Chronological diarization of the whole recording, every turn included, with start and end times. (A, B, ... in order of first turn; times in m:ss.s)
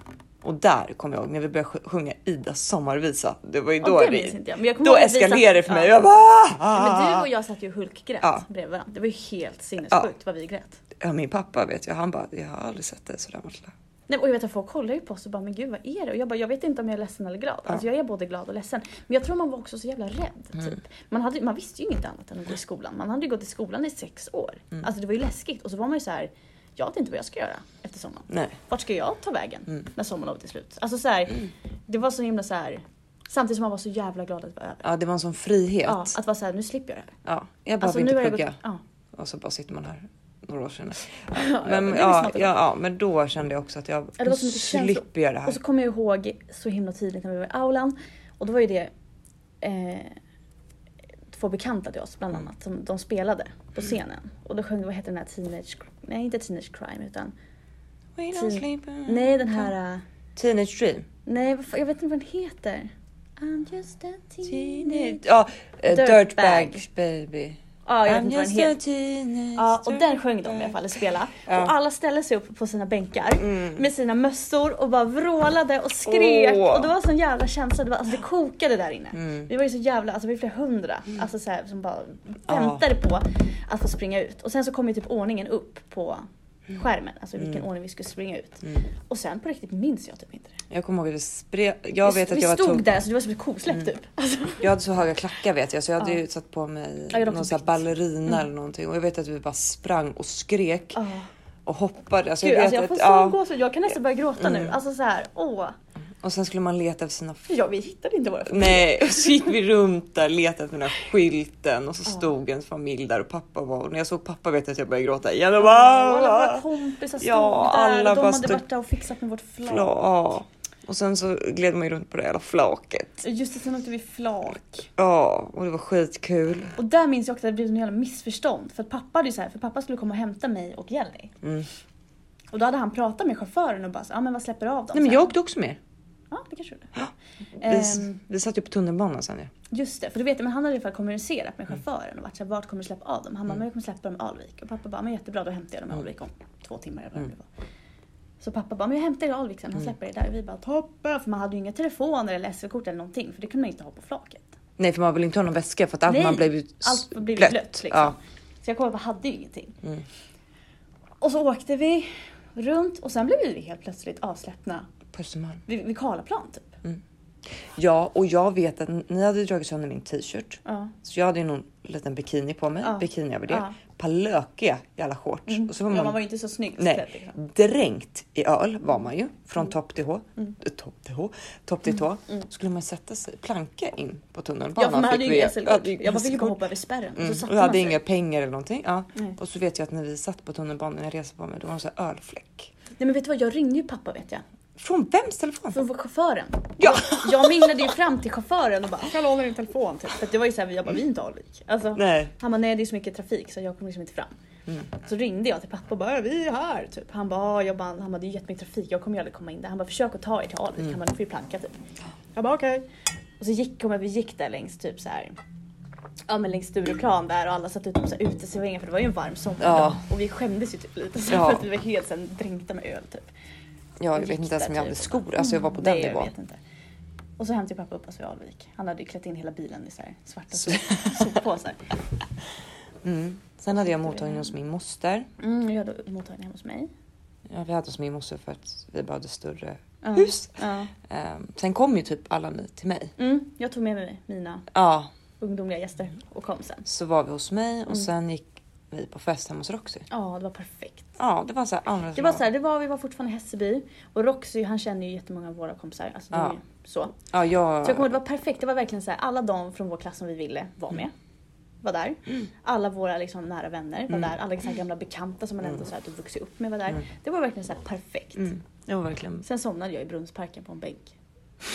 0:00.4-0:07.3 A
0:03.8-0:06.0 B
0:06.7-0:10.8 B
0:11.0-0:13.7 A
0:14.1-0:34.8 B
0:28.3-0:28.6 A
0:34.8-0:36.1 A
0:35.8-0:37.2 B
0:37.2-0:38.6 A
0:37.8-0:38.8 B
0:39.1-0:45.6 A
0:41.3-0:42.5 B
0:44.2-0:48.9 B
0:49.6-0:50.2 B
0:51.3-0:57.3 B
0:58.2-0:59.7 A
0:58.3-1:00.0 B
1:00.4-1:01.1 A
1:01.2-1:05.2 B
1:04.4-1:10.9 A
1:05.9-1:06.8 B
1:07.8-1:08.8 B
1:09.5-1:30.6 B
1:11.5-1:11.7 A
1:13.4-1:13.8 A
1:16.0-1:16.9 A
1:19.1-1:19.5 A
1:22.5-1:22.8 A
1:30.7-1:32.9 A
1:32.0-1:34.7 B
1:34.6-1:41.0 A
1:37.1-1:38.3 B
1:40.9-1:41.3 B
1:41.6-1:43.4 A
1:42.4-1:45.8 B
1:44.4-1:44.8 A
1:46.2-1:47.6 A
1:47.5-1:49.5 B
1:48.4-1:56.6 A
1:55.6-1:59.9 B
1:57.2-1:58.6 A
1:59.6-2:03.2 A
2:03.2-2:04.9 B
2:05.0-2:06.7 A
2:06.8-2:11.3 B
2:11.4-2:11.7 A
2:12.5-2:15.3 B
2:14.9-2:15.8 A
2:16.3-2:16.9 B
2:16.9-2:19.5 A
2:17.6-2:18.2 B
2:19.7-2:27.5 B
2:28.4-2:34.6 B
2:34.8-2:38.2 A
2:36.1-2:39.8 B
2:41.2-2:44.9 B
2:45.1-2:45.6 A
2:45.7-2:46.8 B
2:47.6-2:56.2 A
2:50.6-2:50.9 B
2:52.8-2:53.8 B
2:55.5-2:57.4 B
2:56.8-3:06.6 A
3:04.8-3:08.0 B
3:07.2-3:12.7 A
3:13.0-3:14.4 B
3:14.8-3:15.8 A
3:15.7-3:24.3 B
3:16.8-3:17.9 A
3:22.0-3:22.3 A
3:24.9-3:31.8 B
3:32.3-3:32.9 B
3:33.4-3:35.4 B
3:36.3-3:43.3 B
3:39.6-3:40.0 A
3:41.3-3:41.7 A
3:44.0-3:46.3 A
3:44.1-3:46.6 B
3:47.4-3:51.8 B
3:50.7-3:51.3 A
3:53.0-3:55.3 A
3:53.7-3:54.5 B
3:55.4-3:56.9 B
3:57.5-4:03.1 A
4:00.0-4:00.9 B
4:03.2-4:04.7 B
4:04.7-4:05.1 A
4:05.4-4:06.8 B
4:06.8-4:10.1 A
4:10.1-4:11.2 B
4:11.2-4:12.4 A
4:12.1-4:17.2 B
4:17.2-4:18.1 A
4:17.8-4:21.1 B
4:21.8-4:28.5 B
4:28.4-4:29.4 A
4:29.4-4:31.2 B